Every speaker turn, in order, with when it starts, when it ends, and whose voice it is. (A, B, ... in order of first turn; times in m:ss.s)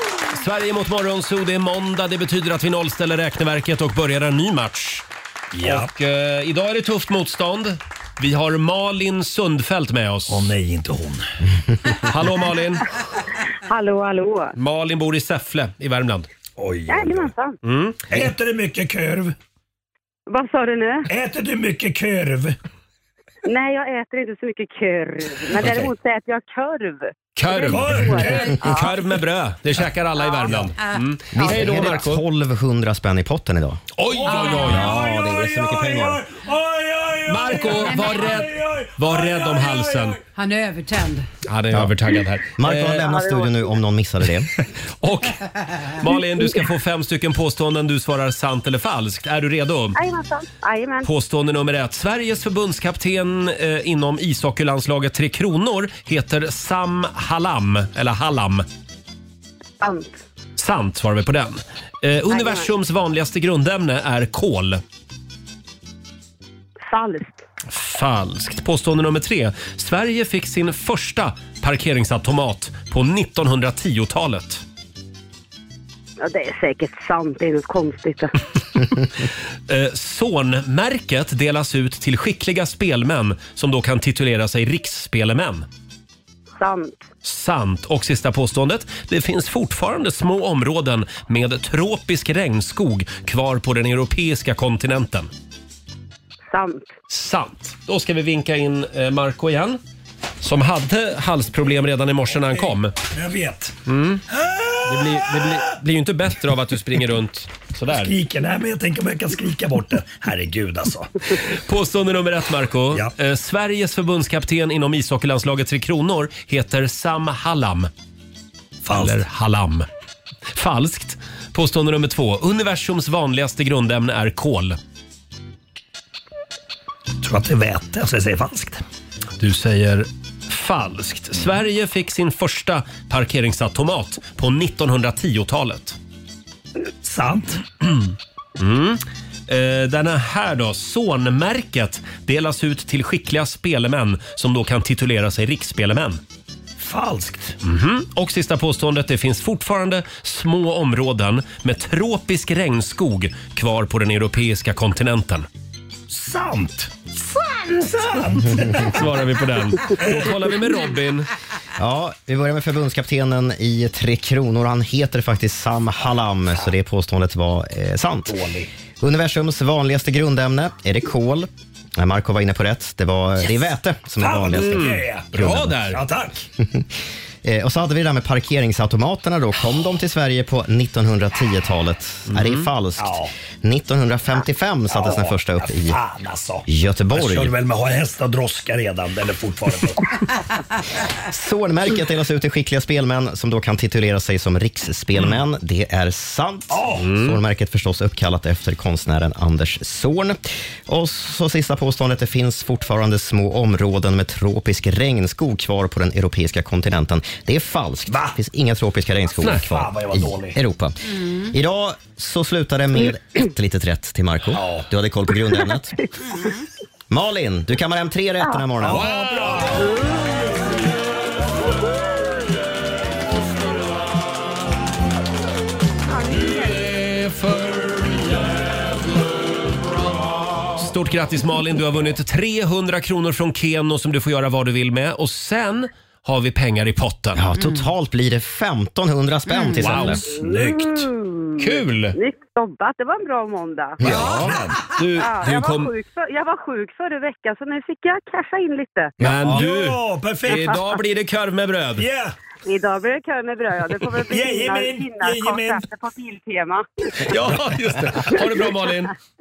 0:00.3-0:05.0 A
0:05.5-0:05.9 B
0:05.6-0:10.5 A
0:10.3-0:11.3 B
0:12.1-0:12.9 A
0:13.7-0:14.5 C
0:14.5-0:16.3 A
0:16.6-0:17.3 B
0:16.9-0:17.5 C
0:17.6-0:18.3 A
0:18.1-0:19.3 B
0:20.3-0:21.1 C
0:21.1-0:22.6 B
0:23.5-0:28.8 C
0:27.4-0:32.2 A
0:27.7-0:28.6 B
0:31.3-0:33.8 D
0:34.0-0:35.0 A
0:34.1-0:40.2 B
0:34.3-0:34.8 E
0:34.6-0:36.2 D
0:37.3-0:40.2 A
0:37.7-0:38.5 E
0:40.3-0:41.3 E
0:41.4-0:43.2 A
0:42.6-0:44.5 D
0:45.0-0:50.0 A
0:50.0-0:51.0 C
0:51.0-0:58.6 A
0:59.8-1:00.1 C
1:00.6-1:04.8 A
1:02.3-1:02.6 C
1:06.9-1:07.3 C
1:07.7-1:14.6 A
1:16.2-1:18.3 C
1:19.7-1:25.6 A
1:26.6-1:27.0 C
1:27.2-1:35.3 A
1:36.5-1:36.8 C
1:37.1-1:39.8 A
1:40.4-1:42.9 A
1:42.4-1:43.8 B
1:43.9-1:44.2 A
1:44.3-1:45.6 B
1:44.8-1:48.1 A
1:47.9-1:51.2 B
1:51.4-1:57.9 A
1:58.8-1:59.2 B
1:59.0-1:59.9 A
2:00.5-2:04.8 A
2:07.2-2:08.8 B
2:09.4-2:16.0 A
2:17.0-2:17.6 B
2:18.6-2:26.2 A
2:26.8-2:27.5 B
2:27.6-2:35.5 A
2:36.1-2:39.0 B
2:38.8-2:41.3 A
2:39.9-2:40.3 B
2:41.8-2:48.4 D
2:48.3-2:48.7 B
2:49.0-2:55.8 D
2:54.2-2:56.5 B
2:54.5-2:56.0 A
2:56.6-2:56.9 D
2:57.4-3:06.0 D
3:02.3-3:02.7 A
3:03.0-3:03.3 B
3:04.9-3:10.0 B
3:06.7-3:07.5 D
3:11.2-3:36.0 D
3:16.7-3:17.1 B
3:17.0-3:17.4 A
3:29.6-3:30.6 B
3:34.5-3:34.9 B
3:37.1-3:39.1 D
3:38.8-3:39.9 B
3:38.9-3:39.9 A
3:46.3-3:48.7 A
3:50.8-3:57.4 A
3:57.3-4:00.2 D
3:57.6-3:57.8 E
3:59.8-4:00.2 A
4:00.3-4:01.1 B
4:01.0-4:01.5 C
4:01.6-4:02.2 A
4:02.1-4:04.0 C
4:04.0-4:04.5 D
4:04.0-4:05.9 A
4:04.0-4:04.8 B
4:05.2-4:09.1 C
4:09.2-4:09.6 D
4:09.2-4:12.1 A
4:09.5-4:10.7 B
4:12.0-4:12.3 B
4:12.6-4:16.8 C
4:14.3-4:15.8 B
4:17.2-4:19.1 A